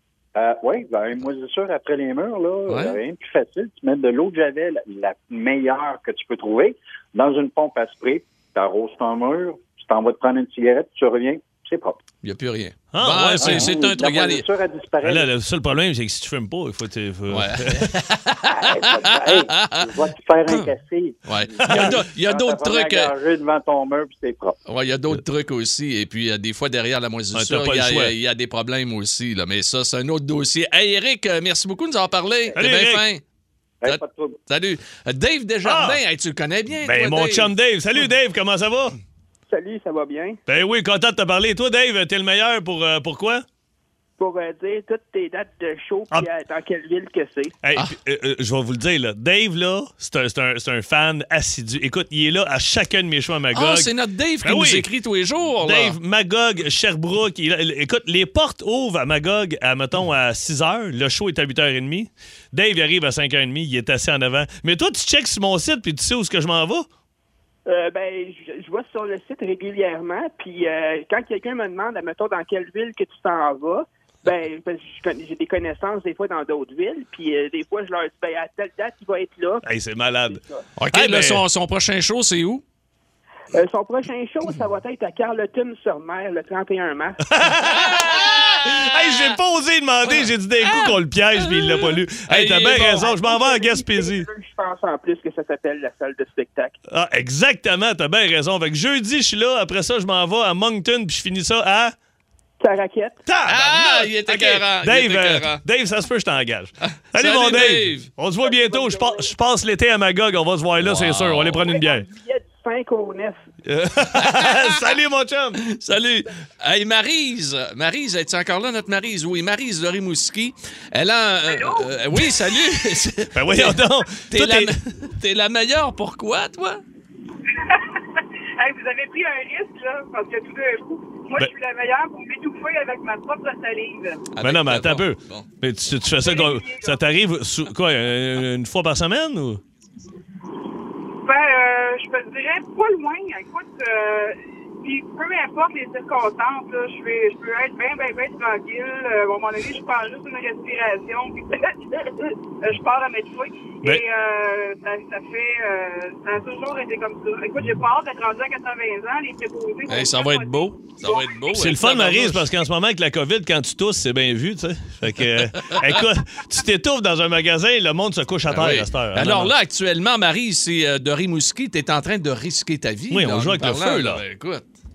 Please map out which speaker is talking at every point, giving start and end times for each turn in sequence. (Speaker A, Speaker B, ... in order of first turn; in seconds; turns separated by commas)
Speaker A: 0.3-12.0, Speaker B: 2.7-3.0, Speaker B: 12.2-14.4, Speaker C: 12.9-13.7, Speaker A: 13.4-15.3, Speaker C: 15.0-17.9, Speaker B: 17.3-19.9, Speaker A: 18.5-24.6, Speaker B: 21.2-23.1, Speaker C: 21.6-22.0, Speaker B: 24.7-33.2, Speaker C: 27.3-28.1, Speaker C: 32.6-33.0, Speaker A: 33.8-34.4, Speaker B: 33.8-37.5, Speaker C: 35.6-36.0, Speaker C: 36.8-39.0, Speaker D: 39.5-40.4, Speaker C: 40.5-43.5, Speaker D: 44.2-47.6, Speaker C: 47.6-53.9, Speaker B: 53.5-56.0, Speaker C: 54.4-54.9, Speaker C: 55.6-66.9, Speaker D: 67.7-79.7, Speaker C: 79.6-81.4, Speaker D: 80.3-80.7, Speaker B: 80.8-82.6, Speaker D: 83.5-88.3, Speaker C: 87.3-94.3, Speaker B: 87.7-88.8, Speaker B: 90.1-93.1, Speaker D: 92.8-96.8, Speaker C: 96.9-102.0, Speaker D: 102.6-103.2, Speaker C: 103.3-112.1, Speaker B: 103.5-105.6, Speaker B: 106.8-108.1, Speaker D: 108.4-109.3, Speaker B: 110.8-111.7, Speaker D: 111.6-113.4, Speaker C: 113.7-115.6, Speaker B: 114.2-114.8, Speaker B: 115.6-126.8, Speaker E: 121.5-121.9, Speaker C: 123.3-124.7, Speaker E: 127.6-128.0, Speaker E: 128.6-134.2, Speaker B: 134.3-135.5, Speaker C: 134.4-139.6, Speaker E: 136.2-137.0, Speaker E: 141.2-161.5, Speaker B: 159.9-162.5, Speaker C: 161.5-169.5, Speaker B: 165.4-166.0, Speaker B: 168.5-174.7, Speaker C: 173.1-174.2